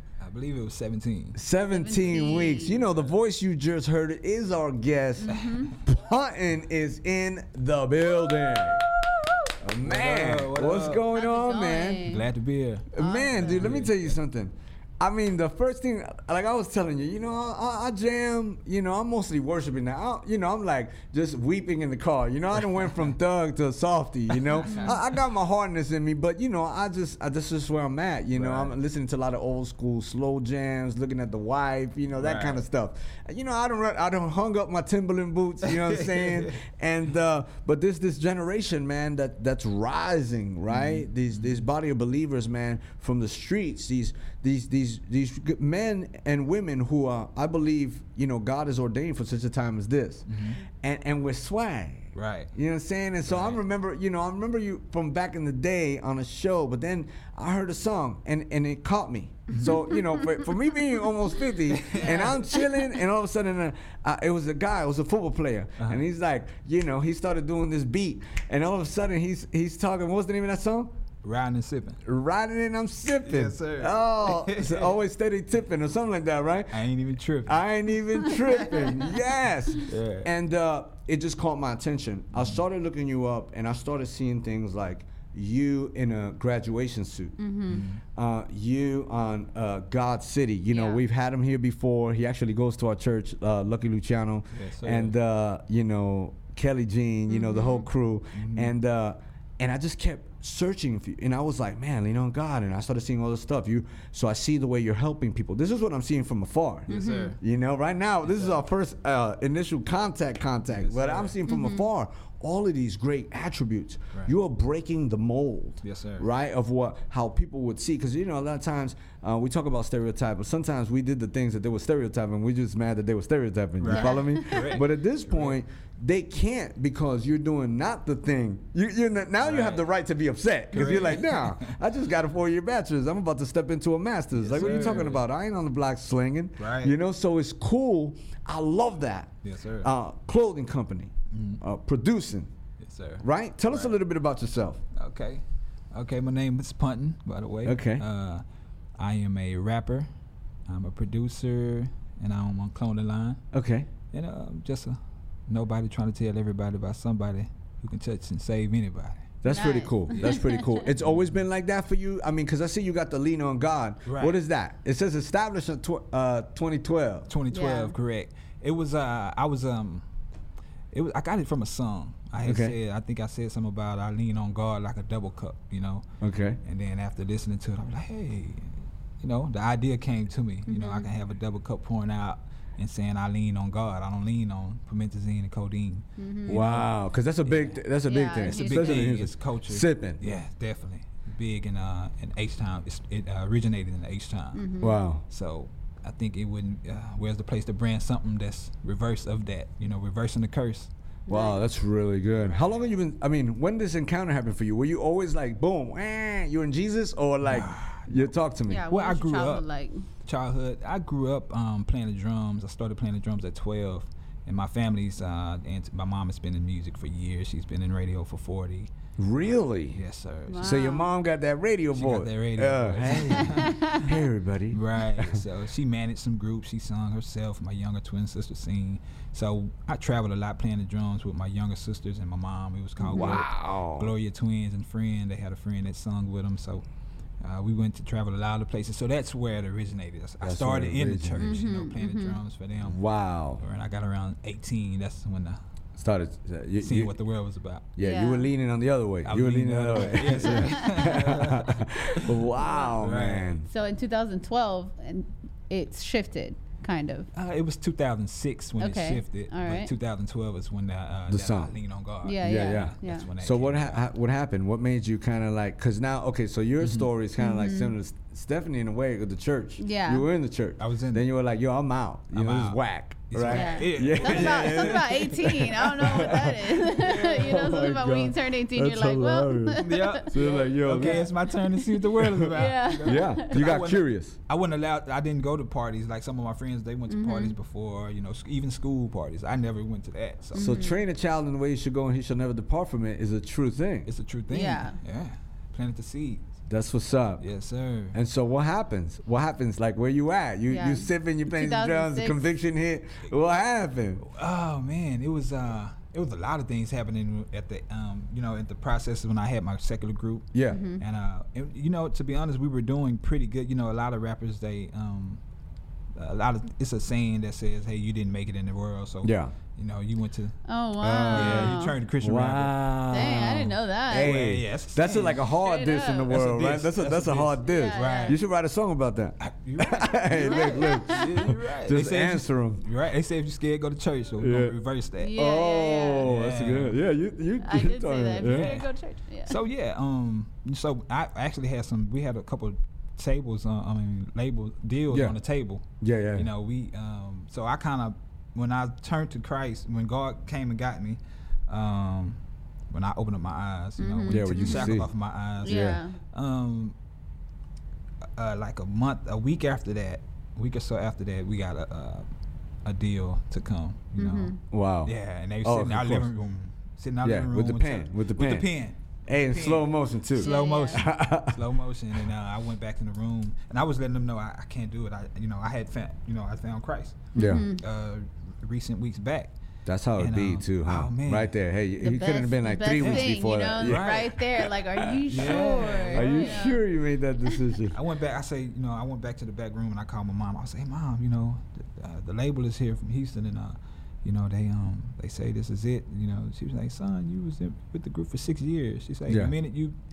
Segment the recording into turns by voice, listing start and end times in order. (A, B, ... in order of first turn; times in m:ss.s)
0:00.2-0:01.4 A
0:01.4-0:08.9 B
0:01.7-0:02.8 C
0:05.2-0:05.7 C
0:09.1-0:09.4 C
0:09.6-0:12.1 B
0:09.8-0:11.1 A
0:11.1-0:12.3 C
0:12.1-0:14.1 A
0:12.9-0:50.3 B
0:13.0-0:13.7 C
0:24.3-0:25.0 A
0:28.4-0:28.7 A
0:32.2-0:32.6 A
0:35.6-0:36.5 A
0:40.7-0:41.6 A
0:50.3-0:50.6 A
0:50.8-1:10.9 B
0:52.2-0:52.5 A
0:53.3-0:53.6 A
0:59.5-0:59.8 A
0:59.9-1:00.3 C
1:01.7-1:02.4 A
1:02.0-1:02.8 C
1:05.8-1:06.0 A
1:11.2-1:12.0 A
1:12.0-1:16.8 B
1:13.2-1:15.0 A
1:16.7-1:17.6 A
1:17.5-1:27.4 B
1:18.3-1:19.0 A
1:19.8-1:20.3 A
1:27.4-1:27.8 C
1:27.7-1:28.0 A
1:28.2-2:22.5 B
1:30.7-1:31.0 C
1:34.5-1:35.2 A
1:37.3-1:37.9 C
1:38.4-1:38.7 A
1:46.9-1:47.4 A
1:46.9-1:47.4 C
1:48.2-1:48.6 A
1:50.7-1:51.4 A
1:51.5-1:51.8 C
1:55.8-1:56.3 A
2:03.8-2:05.6 A
2:03.9-2:04.8 C
2:09.4-2:09.8 A
2:10.7-2:11.8 A
2:14.4-2:15.3 A
2:16.6-2:17.0 A
2:19.4-2:19.9 A
2:21.3-2:21.6 A
2:22.8-2:24.0 A
2:23.2-2:24.8 B
2:25.0-2:28.4 A
2:27.6-2:28.0 B
2:29.0-2:30.1 A
2:30.7-2:33.4 A
2:33.5-2:33.9 B
2:34.1-2:39.5 A
2:39.4-2:47.3 B
2:39.5-2:40.6 C
2:40.1-2:41.4 A
2:44.1-2:44.4 A
2:47.3-2:50.0 A
2:47.5-2:48.0 C
2:50.9-2:56.0 A
2:52.4-2:52.8 B
2:56.2-2:56.6 B
2:56.6-3:06.9 A
3:00.7-3:01.1 C
3:06.2-3:06.6 C
3:06.5-3:10.2 B
3:07.4-3:07.8 A
3:08.1-3:09.1 C
3:08.4-3:14.7 A
3:14.5-3:15.0 C
3:14.8-3:15.2 B
3:15.3-3:20.9 A
3:21.3-3:21.6 C
3:21.3-3:28.8 B
3:22.4-3:23.0 A
3:27.4-3:28.3 A
3:28.7-3:30.0 C
3:28.9-3:29.6 A
3:30.2-3:38.9 A
3:39.2-3:40.0 B
3:39.9-3:40.8 A
3:40.5-3:41.1 C
3:40.6-3:45.4 B
3:41.9-3:44.2 A
3:44.7-3:56.8 A
3:53.0-3:54.1 B
3:53.1-3:53.4 C
3:57.4-4:03.0 A
4:00.4-4:01.6 B
4:01.4-4:02.4 C
4:02.8-4:03.6 B
4:03.6-4:05.6 A
4:06.0-4:07.1 B
4:06.8-4:07.9 A
4:08.0-4:13.7 B
4:08.0-4:08.5 C
4:09.2-4:12.4 A
4:10.5-4:11.1 C
4:12.6-4:12.9 C
4:13.0-4:13.6 A
4:13.7-4:17.3 C
4:17.3-4:24.0 A
4:18.8-4:19.9 C
4:21.3-4:21.7 B
4:22.2-4:23.3 C
4:22.4-4:41.3 B
4:26.8-4:27.1 A
4:27.4-4:28.0 C
4:29.8-4:30.3 C
4:30.8-4:31.3 A
4:32.3-4:35.3 A
4:33.5-4:40.3 C
4:36.1-4:36.4 A
4:37.0-4:37.8 A
4:39.8-4:50.7 A
4:40.9-4:43.6 C
4:42.2-4:42.5 B
4:43.0-4:44.4 B
4:47.1-4:47.6 C
4:50.5-4:51.0 C
4:50.6-4:54.1 B
4:54.1-4:56.5 A
4:54.5-4:55.0 C
4:56.7-4:57.4 B
4:57.4-4:58.2 A
4:58.1-5:04.2 B
5:00.7-5:02.5 C
5:04.2-5:15.4 A
5:10.5-5:10.8 B
5:10.7-5:11.0 C
5:16.2-5:25.5 A
5:19.2-5:19.5 B
5:20.7-5:22.0 C
5:21.1-5:32.8 B
5:23.1-5:24.4 C
5:25.6-5:26.3 C
5:26.3-5:28.4 A
5:27.6-5:28.4 C
5:29.4-5:35.4 A
5:30.4-5:31.3 C
5:34.4-5:34.8 B
5:35.2-5:36.2 C
5:35.4-5:38.8 B
5:36.2-5:37.0 A
5:37.6-5:39.6 C
5:38.4-5:38.8 A
5:39.5-5:52.4 A
5:45.1-5:45.4 B
5:46.0-5:46.5 B
5:52.9-5:57.0 A
5:54.0-5:54.9 C
5:54.3-5:55.1 B
5:55.6-5:56.0 B
5:55.6-5:56.2 C
5:58.4-6:02.3 A
6:02.8-6:19.5 A
6:04.2-6:04.6 C
6:04.7-6:06.3 B
6:07.2-6:08.7 B
6:09.3-6:11.6 B
6:10.4-6:11.0 C
6:17.4-6:17.8 C
6:17.4-6:17.7 B
6:19.9-6:24.3 B
6:20.2-6:21.6 A
6:22.0-6:26.8 C
6:23.0-6:24.6 A
6:25.2-6:28.0 B
6:25.3-6:26.7 A
6:27.9-6:40.0 A
6:39.3-6:39.6 B